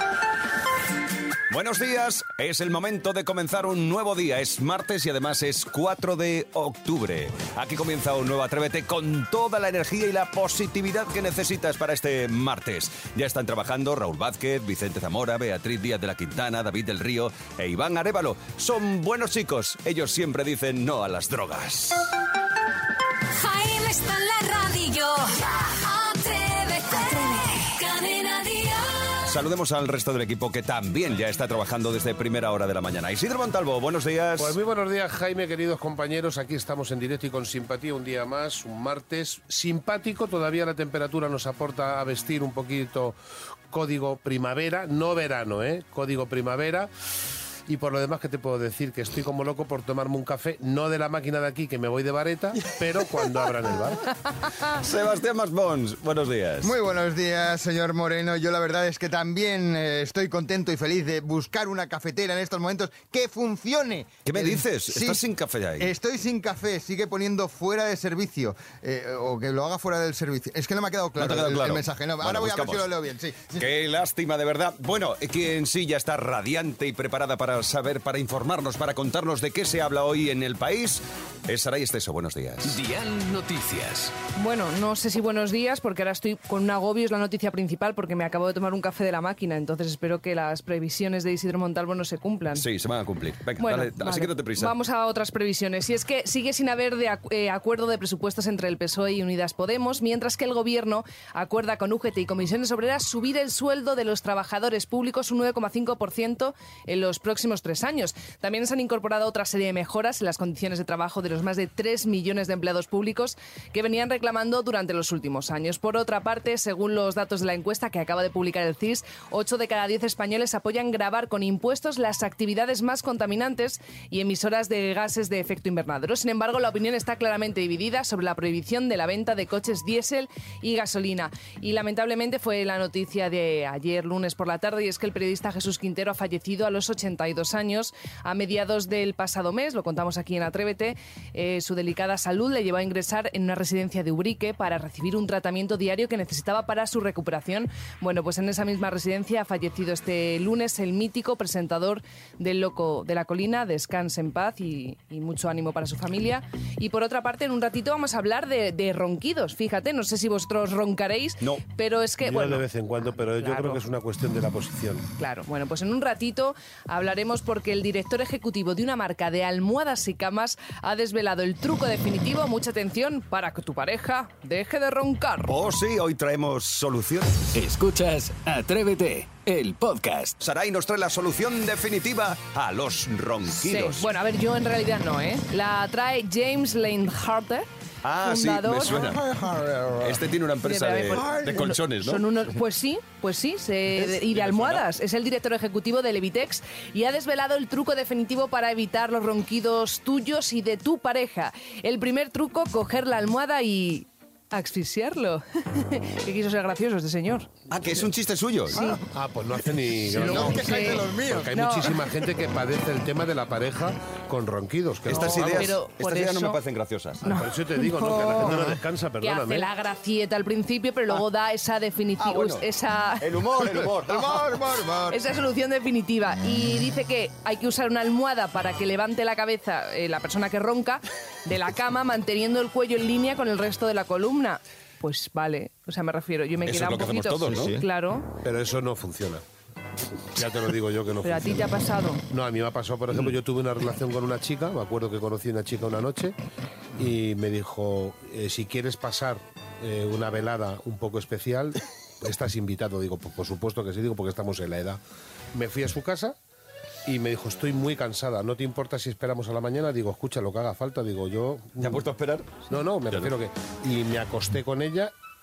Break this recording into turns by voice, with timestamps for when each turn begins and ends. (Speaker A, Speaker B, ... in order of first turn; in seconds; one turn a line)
Speaker A: 1.5-22.1
Speaker B: 23.3-29.3
Speaker A: 29.2-34.6
Speaker C: 34.4-43.2
Speaker C: 43.7-46.9
Speaker C: 47.7-54.1
Speaker A: 54.7-56.7
Speaker D: 56.6-65.2
Speaker A: 64.3-65.9
Speaker D: 65.8-73.7
Speaker A: 71.2-72.9
Speaker A: 73.6-82.8
Speaker E: 82.7-84.1
Speaker F: 84.3-92.7
Speaker A: 92.5-94.8
Speaker F: 93.6-163.8
Speaker C: 162.2-165.1
Speaker F: 165.2-175.5
Speaker A: 175.5-177.5
Speaker E: 177.5-180.4
Speaker A: 180.4-184.1
Speaker F: 183.5-187.7
Speaker A: 188.0-189.2
Speaker F: 188.2-189.1
Speaker D: 188.9-190.2
Speaker A: 190.0-192.2
Speaker F: 190.6-207.5
Speaker D: 191.2-191.5
Speaker A: 194.0-194.8
Speaker A: 207.7-208.8
Speaker F: 208.7-209.0
Speaker C: 209.1-215.8
Speaker D: 210.1-211.5
Speaker F: 210.2-211.9
Speaker A: 215.1-217.2
Speaker F: 215.2-216.6
Speaker F: 217.2-218.6
Speaker C: 217.2-219.7
Speaker F: 219.2-223.3
Speaker A: 222.2-222.7
Speaker A: 223.2-224.6
Speaker D: 223.6-225.2
Speaker F: 225.1-238.3
Speaker A: 236.7-237.8
Speaker C: 238.4-239.4
Speaker C: 240.3-241.7
Speaker F: 241.2-242.2
Speaker C: 242.3-246.3
Speaker C: 247.0-255.0
Speaker C: 255.5-256.4
Speaker C: 257.1-262.0
Speaker A: 261.8-262.5
Speaker C: 262.7-265.1